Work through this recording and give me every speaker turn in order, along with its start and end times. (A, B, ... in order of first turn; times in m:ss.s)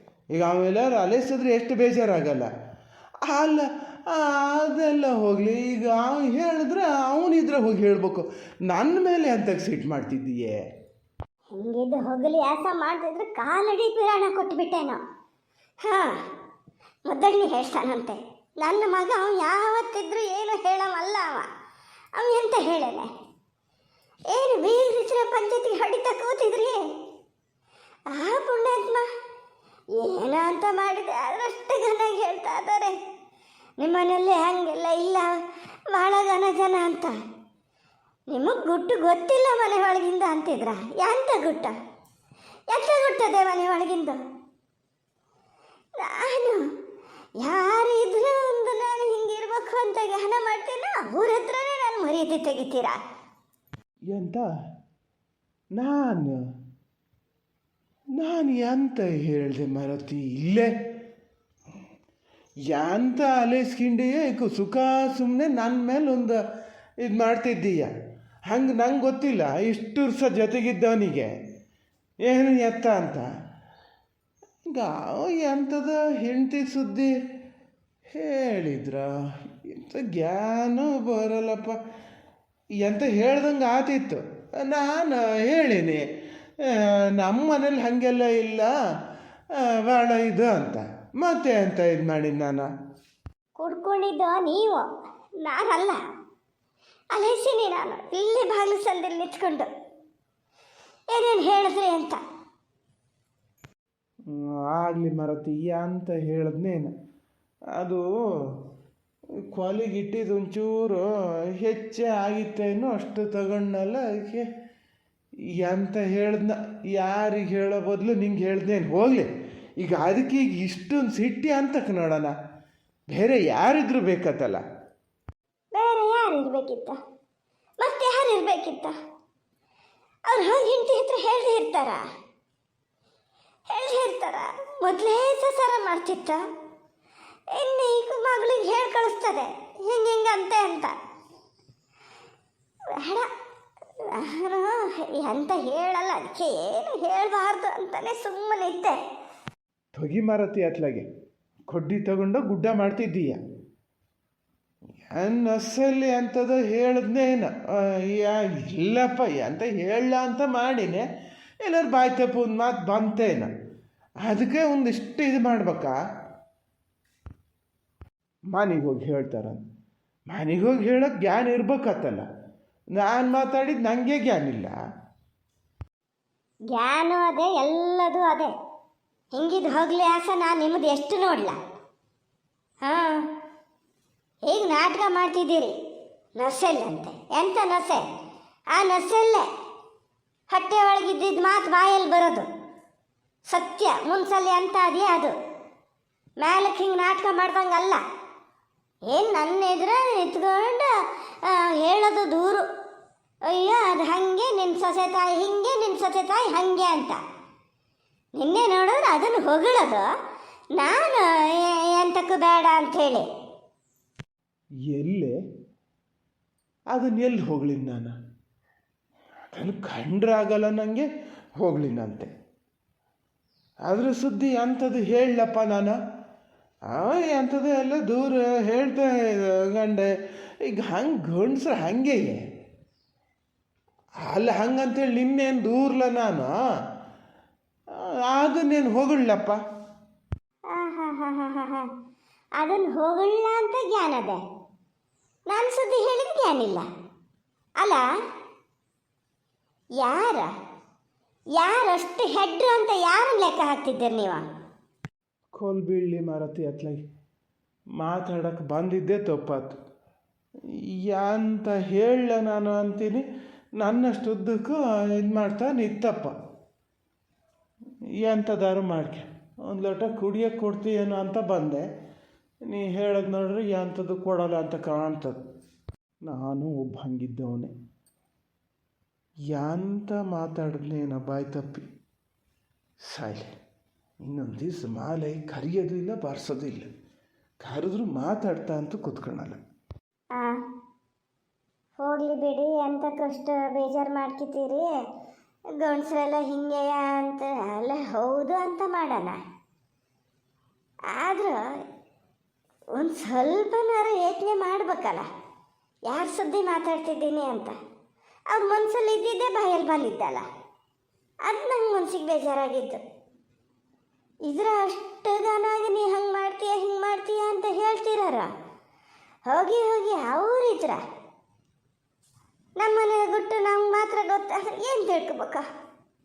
0:00.3-0:02.5 A
0:03.2-0:10.6 A
0:11.5-0:15.0 B
0:15.8-0:16.2 B
0:17.1-0:21.5 B
0:22.2-0:23.1 B
0:24.3-0:26.8 B
0:28.1-0:29.1 B
0:29.9-0:33.0 B
0:33.8-0:35.3 B
0:35.9-0:37.2 B
0:38.3-0:41.8 B
0:42.7-0:44.2 B
0:46.0-0:46.6 B
0:47.4-0:53.0 B
0:54.1-0:54.5 A
0:55.7-0:56.4 A
0:58.2-1:00.7 A
1:02.7-1:06.4 A
1:07.0-1:07.9 A
1:08.5-1:11.4 A
1:12.2-1:13.3 A
1:14.7-1:17.1 A
1:18.1-1:19.1 A
1:19.6-1:21.8 A
1:22.8-1:26.0 A
1:26.8-1:28.7 A
1:29.6-1:32.7 A
1:33.6-1:34.9 B
1:35.4-1:36.0 B
1:37.1-1:39.7 B
1:41.1-1:42.2 B
1:44.3-1:46.9 A
1:47.8-1:48.6 A
1:49.5-1:54.4 A
1:55.6-2:02.3 A
2:03.1-2:04.6 A
2:05.7-2:07.0 B
2:07.8-2:09.0 B
2:10.3-2:12.0 B
2:13.7-2:16.4 B
2:17.5-2:20.9 B
2:22.9-2:23.3 B
2:24.0-2:29.0 B
2:29.9-2:31.0 A
2:31.7-2:33.4 A
2:35.0-2:41.0 A
2:41.6-2:43.5 A
2:44.2-2:46.0 A
2:48.5-2:49.6 A
2:50.3-2:52.2 A
2:53.0-2:54.7 A
2:56.7-2:58.5 B
2:59.3-3:01.6 B
3:02.8-3:03.2 B
3:04.4-3:05.8 B
3:06.4-3:08.0 B
3:08.7-3:09.5 B
3:10.5-3:12.5 B
3:13.4-3:15.3 B
3:16.4-3:18.0 B
3:19.0-3:22.7 B
3:23.4-3:27.2 B
3:28.3-3:30.1 B
3:30.7-3:33.3 B
3:34.9-3:35.3 A
3:36.9-3:38.1 A
3:39.5-3:41.1 A
3:41.6-3:42.3 A
3:43.9-3:46.0 A
3:46.9-3:50.1 A
3:50.6-3:52.4 A
3:54.2-3:56.5 A
3:58.3-3:59.6 A
4:00.7-4:01.9 B
4:02.6-4:04.4 B
4:05.5-4:06.8 B
4:07.8-4:08.0 B
4:10.0-4:10.5 B
4:11.6-4:14.5 B
4:15.5-4:17.0 A
4:18.0-4:19.8 A
4:21.0-4:23.2 A
4:23.8-4:26.3 A
4:28.2-4:31.9 A
4:32.7-4:35.4 A
4:36.2-4:37.7 A
4:39.5-4:41.8 A
4:43.1-4:43.5 A
4:44.2-4:46.9 A
4:47.6-4:49.6 A
4:50.3-4:50.6 B
4:52.0-4:54.9 B
4:55.7-4:59.4 B
5:01.1-5:01.8 B
5:02.9-5:05.3 B
5:06.1-5:07.8 B
5:08.5-5:10.4 B
5:11.4-5:13.0 B
5:14.4-5:18.5 B
5:19.4-5:21.0 B
5:22.8-5:25.6 B